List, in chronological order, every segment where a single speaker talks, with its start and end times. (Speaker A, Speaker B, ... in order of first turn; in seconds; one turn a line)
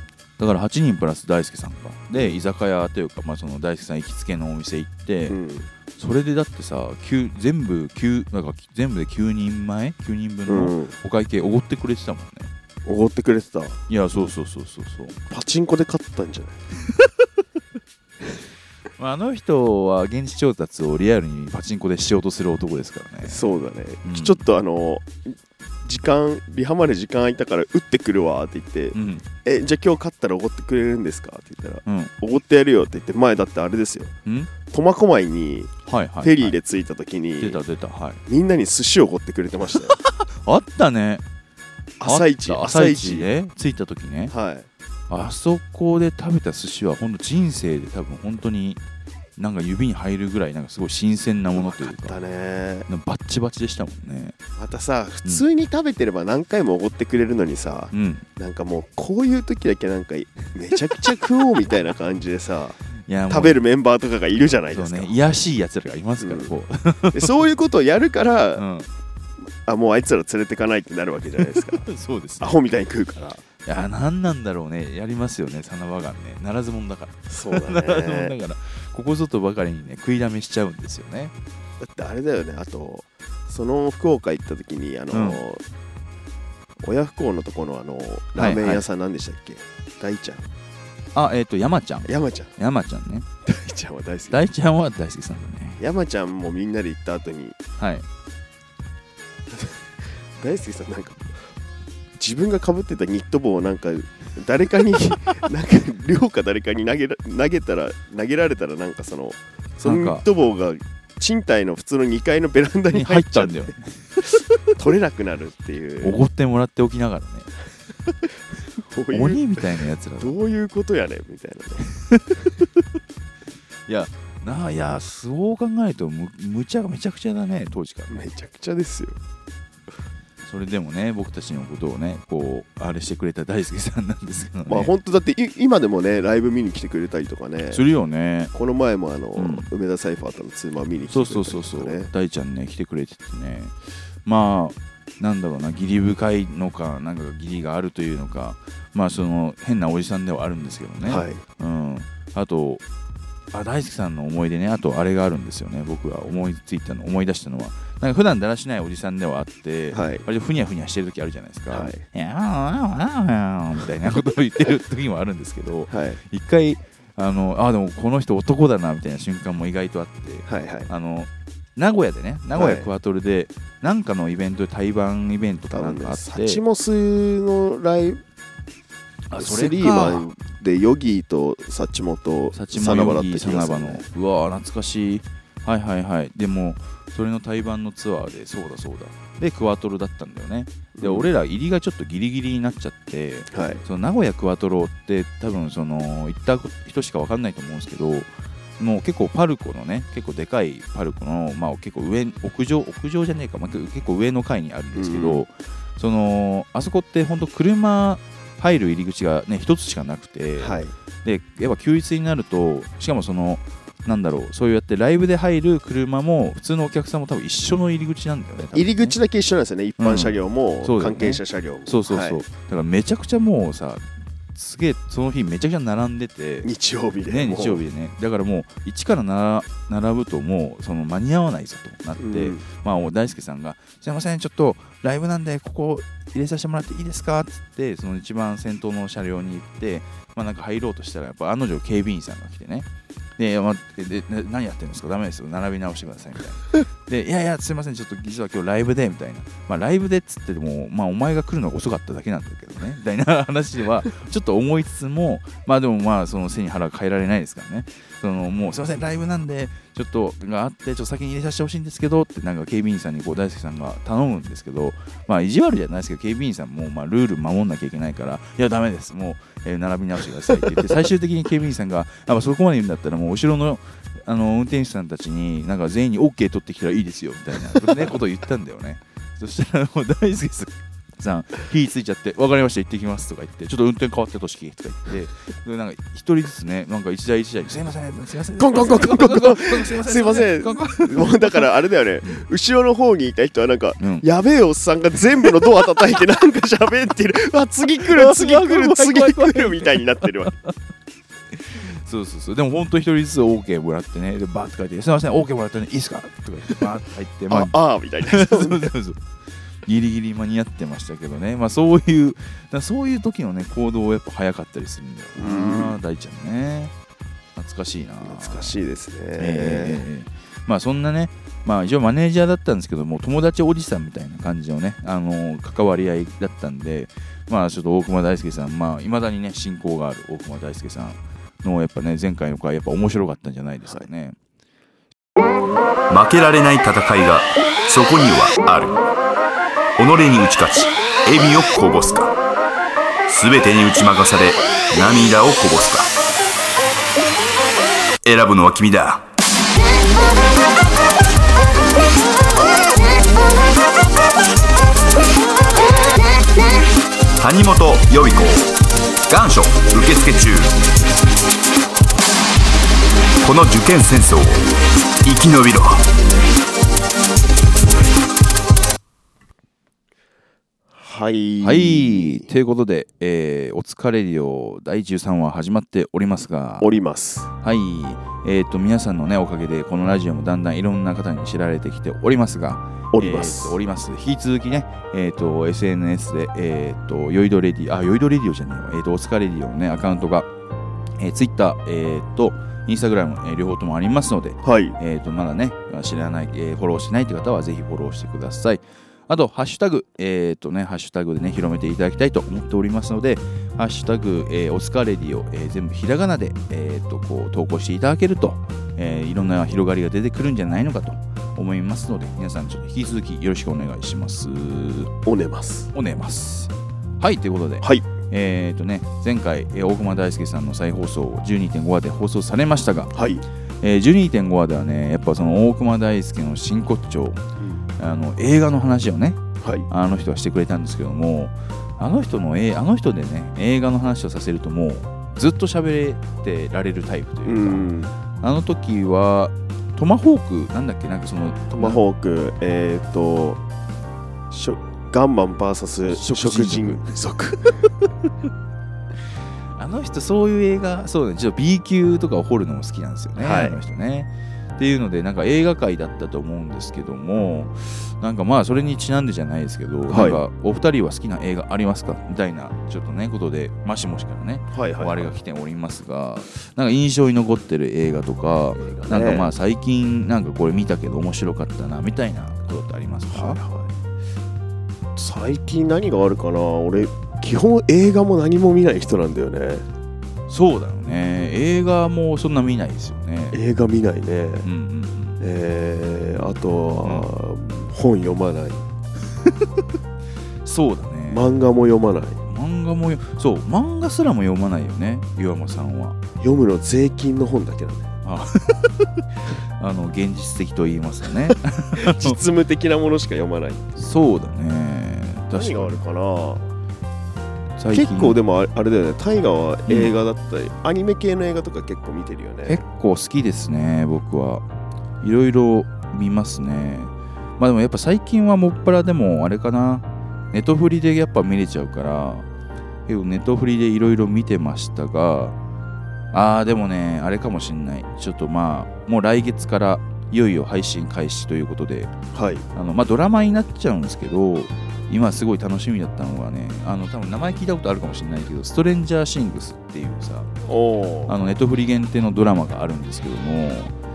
Speaker A: 0.4-5.4
Speaker B: 2.1-2.4
Speaker B: 5.3-5.7
Speaker A: 6.0-12.5
Speaker B: 10.5-10.9
Speaker B: 12.8-13.8
Speaker A: 13.9-15.2
Speaker B: 15.3-16.6
Speaker A: 19.0-23.5
Speaker B: 23.2-37.6
Speaker A: 24.0-24.4
Speaker A: 28.9-29.2
Speaker A: 31.9-32.1
Speaker A: 34.2-34.5
Speaker A: 35.9-36.6
Speaker A: 37.4-38.2
Speaker B: 38.2-40.0
Speaker A: 39.9-41.2
Speaker B: 42.0-43.3
Speaker A: 42.0-44.3
Speaker B: 44.3-44.7
Speaker A: 45.1-48.8
Speaker A: 49.4-52.2
Speaker B: 51.5-52.9
Speaker A: 52.9-54.4
Speaker B: 54.6-62.8
Speaker A: 57.9-58.2
Speaker A: 63.0-63.6
Speaker B: 63.3-65.2
Speaker A: 64.7-67.3
Speaker B: 66.2-66.5
Speaker B: 67.1-68.6
Speaker A: 68.5-68.9
Speaker B: 69.6-71.8
Speaker A: 71.5-72.6
Speaker B: 72.4-73.4
Speaker A: 73.6-81.3
Speaker B: 77.3-78.3
Speaker B: 81.8-85.6
Speaker A: 85.1-85.4
Speaker B: 86.8-90.5
Speaker A: 88.4-88.8
Speaker A: 91.1-93.3
Speaker B: 92.0-92.5
Speaker B: 93.4-94.4
Speaker A: 94.3-95.8
Speaker B: 95.8-97.6
Speaker A: 97.8-98.0
Speaker B: 99.5-101.3
Speaker B: 102.2-113.7
Speaker A: 109.8-110.2
Speaker A: 112.9-114.2
Speaker B: 114.8-116.2
Speaker A: 116.0-117.5
Speaker B: 118.8-119.6
Speaker A: 119.1-120.3
Speaker B: 120.2-121.8
Speaker A: 122.1-122.3
Speaker A: 123.9-128.2
Speaker B: 128.1-129.2
Speaker A: 130.4-134.9
Speaker B: 134.7-137.8
Speaker A: 137.7-138.5
Speaker B: 138.5-142.1
Speaker A: 139.3-139.7
Speaker A: 141.1-152.8
Speaker B: 151.0-151.4
Speaker A: 153.5-176.6
Speaker B: 159.9-160.2
Speaker B: 161.7-162.0
Speaker B: 165.9-166.2
Speaker B: 170.5-170.9
Speaker B: 172.5-172.9
Speaker B: 175.7-178.2
Speaker A: 179.3-180.2
Speaker B: 179.4-184.1
Speaker A: 182.5-219.2
Speaker B: 190.9-191.3
Speaker B: 193.5-193.8
Speaker B: 204.9-205.4
Speaker B: 210.6-210.9
Speaker B: 218.7-222.4
Speaker A: 220.0-226.7
Speaker B: 226.6-227.8
Speaker A: 227.3-291.7
Speaker B: 232.2-232.6
Speaker B: 288.6-300.5
Speaker A: 294.0-294.2
Speaker A: 298.1-300.7
Speaker A: 301.6-309.2
Speaker B: 307.5-308.9
Speaker A: 309.9-316.9
Speaker B: 315.4-315.9
Speaker A: 317.6-318.8
Speaker B: 318.2-320.0
Speaker A: 319.4-334.4
Speaker C: 336.1-339.0
Speaker C: 340.0-342.3
Speaker C: 343.3-346.1
Speaker C: 348.2-349.2
Speaker C: 357.4-358.7
Speaker C: 359.3-360.8
Speaker C: 363.4-364.7
Speaker C: 365.2-366.1
Speaker B: 370.9-372.5
Speaker A: 371.6-376.9
Speaker B: 376.8-377.5
Speaker A: 377.6-390.5
Speaker B: 383.1-383.8
Speaker A: 391.2-415.1
Speaker B: 394.6-395.0
Speaker B: 415.2-415.9
Speaker A: 415.9-423.1
Speaker B: 417.8-418.1
Speaker B: 423.1-423.4
Speaker A: 423.8-427.4
Speaker A: 428.0-442.0
Speaker B: 429.6-429.9
Speaker B: 437.4-438.1
Speaker B: 441.7-443.6
Speaker B: 444.5-447.9
Speaker A: 446.1-447.1
Speaker A: 449.8-473.6
Speaker B: 453.4-453.8
Speaker B: 460.1-460.4
Speaker B: 464.7-465.4
Speaker B: 468.8-469.5
Speaker B: 473.3-473.9
Speaker B: 475.1-479.9
Speaker A: 480.5-483.6
Speaker B: 483.5-484.7
Speaker A: 484.6-485.4
Speaker B: 485.4-488.8
Speaker A: 490.6-491.6
Speaker B: 491.3-492.4
Speaker A: 492.4-496.1
Speaker B: 496.4-498.1
Speaker A: 498.2-502.4
Speaker B: 502.0-504.1
Speaker A: 504.0-506.0
Speaker B: 505.5-506.7
Speaker A: 507.8-508.4
Speaker B: 507.9-512.8
Speaker A: 509.9-510.1
Speaker A: 512.6-514.6
Speaker A: 515.2-522.5
Speaker A: 523.1-525.5
Speaker A: 526.3-532.1
Speaker B: 532.3-532.6
Speaker A: 532.7-540.5
Speaker B: 540.6-541.4
Speaker A: 541.3-543.9